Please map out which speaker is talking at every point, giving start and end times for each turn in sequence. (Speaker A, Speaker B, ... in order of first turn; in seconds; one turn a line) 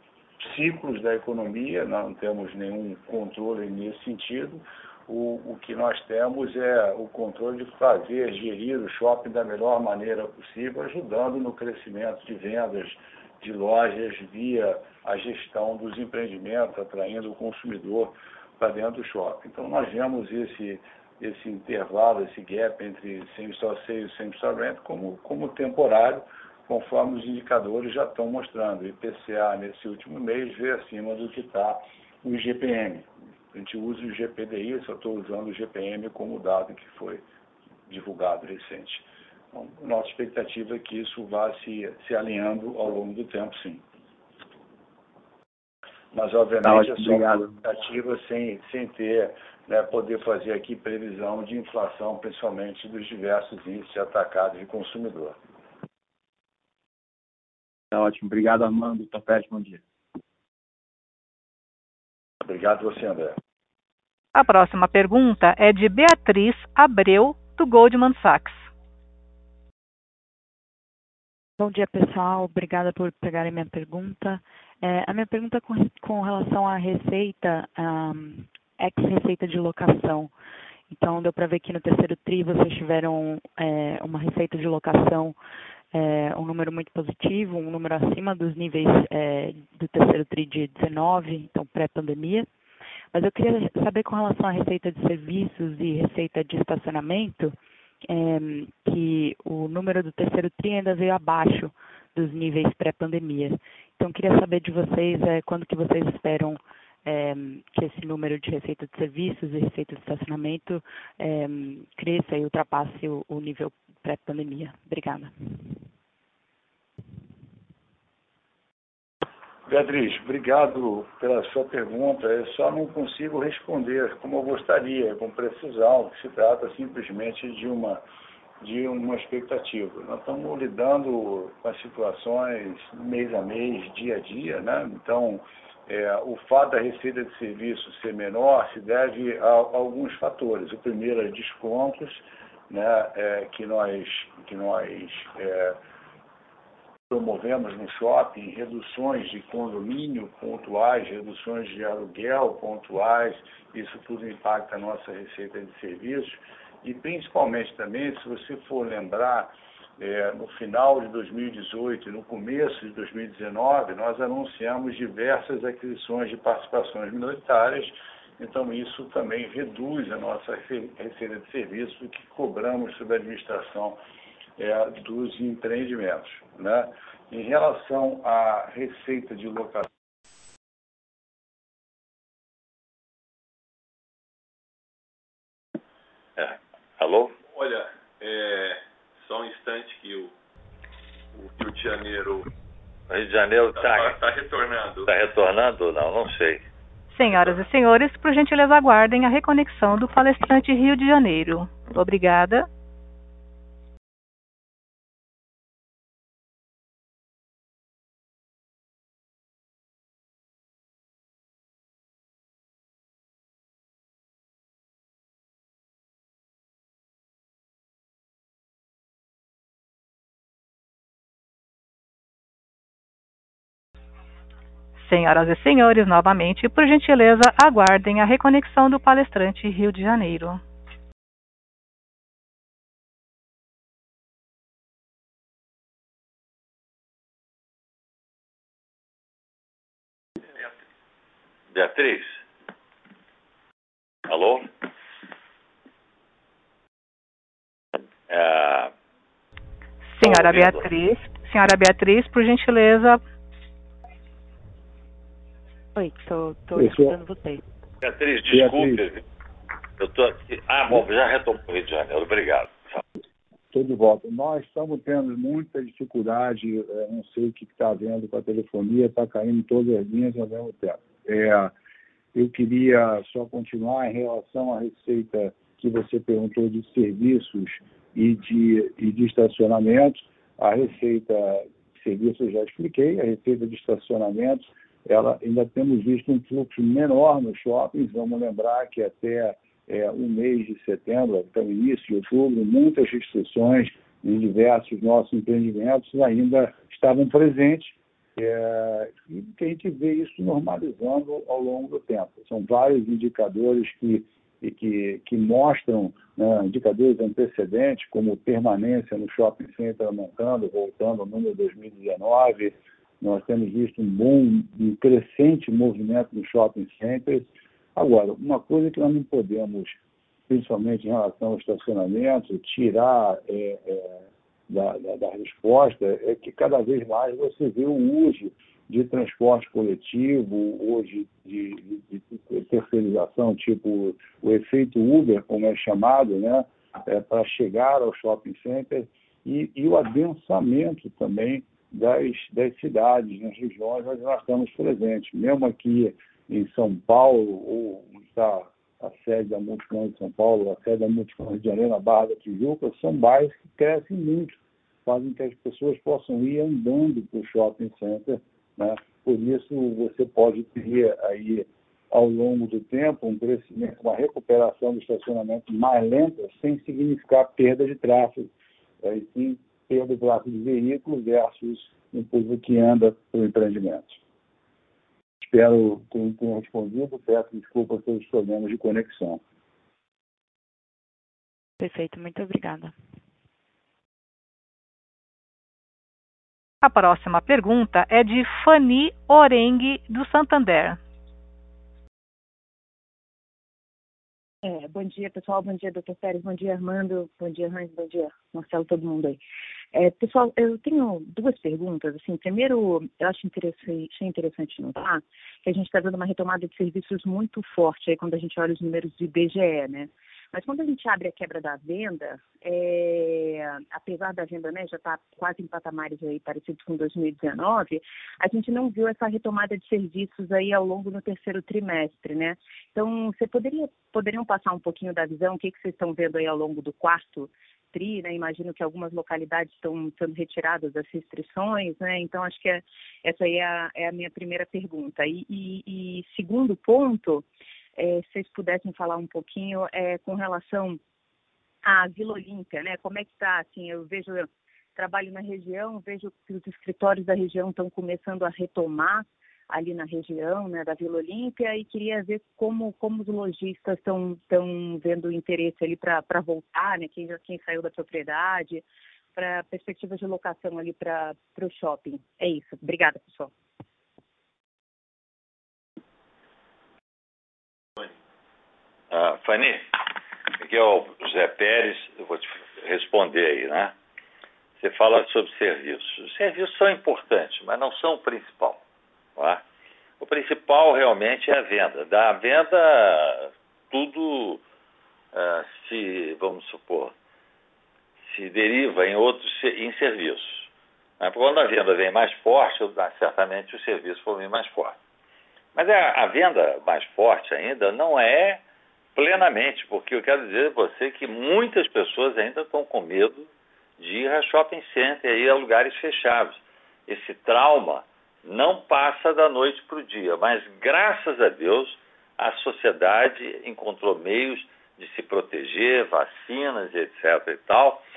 Speaker A: 0.4-37.2
Speaker A: 37.9-43.8
Speaker A: 46.1-55.4
Speaker B: 46.7-47.4
Speaker B: 57.9-59.7
Speaker A: 62.4-63.4
Speaker C: 64.3-68.7
Speaker D: 71.6-80.3
Speaker D: 80.9-85.4
Speaker D: 85.9-92.5
Speaker D: 93.1-115.3
Speaker A: 119.7-128.0
Speaker A: 128.6-145.8
Speaker A: 147.1-174.0
Speaker A: 174.6-179.9
Speaker E: 186.4-187.3
Speaker F: 187.5-190.3
Speaker F: 191.3-192.5
Speaker E: 193.1-194.2
Speaker F: 193.8-195.1
Speaker E: 195.1-196.6
Speaker C: 197.1-202.7
Speaker C: 225.0-230.6
Speaker E: 241.7-242.4
Speaker E: 244.3-244.7
Speaker E: 248.3-248.9
Speaker C: 250.1-253.2
Speaker E: 250.2-250.9
Speaker D: 256.0-257.6
Speaker A: 256.8-257.2
Speaker E: 258.0-259.2
Speaker A: 258.5-259.1
Speaker E: 260.0-263.0
Speaker A: 263.7-271.7
Speaker A: 272.3-368.5
Speaker A: 369.0-374.2
Speaker A: 375.4-379.4
Speaker D: 381.8-382.9
Speaker C: 386.8-391.0
Speaker G: 394.6-399.4
Speaker G: 399.9-441.0
Speaker G: 441.8-458.8
Speaker G: 459.4-463.5
Speaker E: 469.1-469.9
Speaker E: 470.6-473.9
Speaker E: 474.8-478.8
Speaker E: 479.4-479.6
Speaker E: 480.2-484.6
Speaker E: 485.3-487.1
Speaker E: 488.2-490.7
Speaker E: 491.2-495.0
Speaker E: 495.8-498.6
Speaker E: 499.2-518.0